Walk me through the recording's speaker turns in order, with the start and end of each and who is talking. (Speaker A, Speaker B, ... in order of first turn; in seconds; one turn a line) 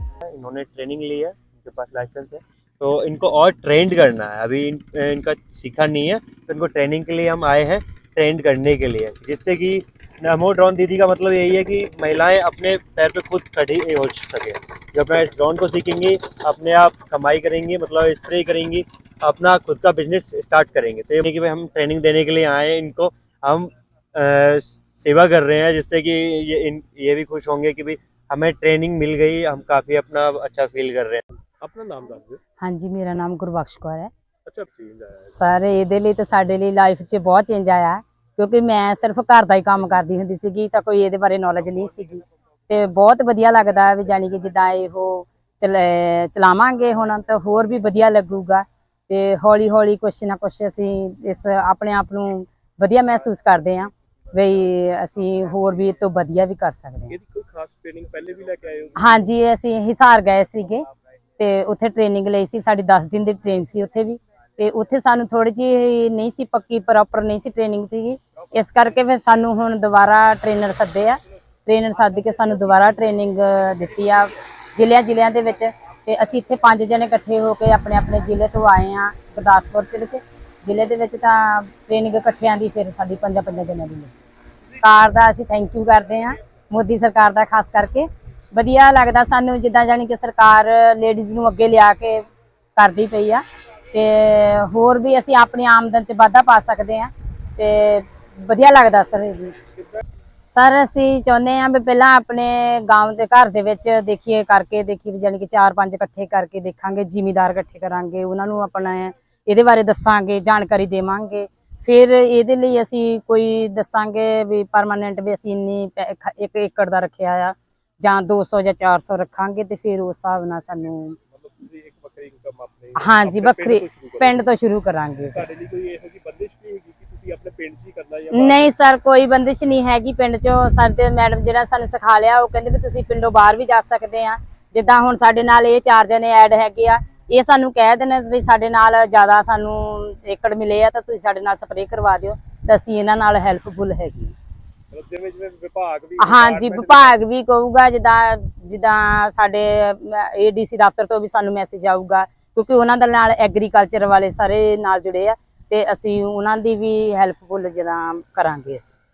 Speaker A: 0.3-31.3
Speaker B: 31.6-32.4
Speaker C: 32.6-34.1
Speaker B: 34.5-35.3
Speaker C: 35.2-57.2
Speaker B: 57.1-59.2
Speaker C: 59.0-60.9
Speaker C: 61.4-84.1
Speaker C: 84.8-92.2
Speaker C: 92.8-99.6
Speaker C: 100.3-121.2
Speaker B: 121.3-124.4
Speaker C: 123.0-125.4
Speaker B: 125.3-128.7
Speaker C: 128.3-144.3
Speaker B: 144.9-147.2
Speaker C: 146.2-158.9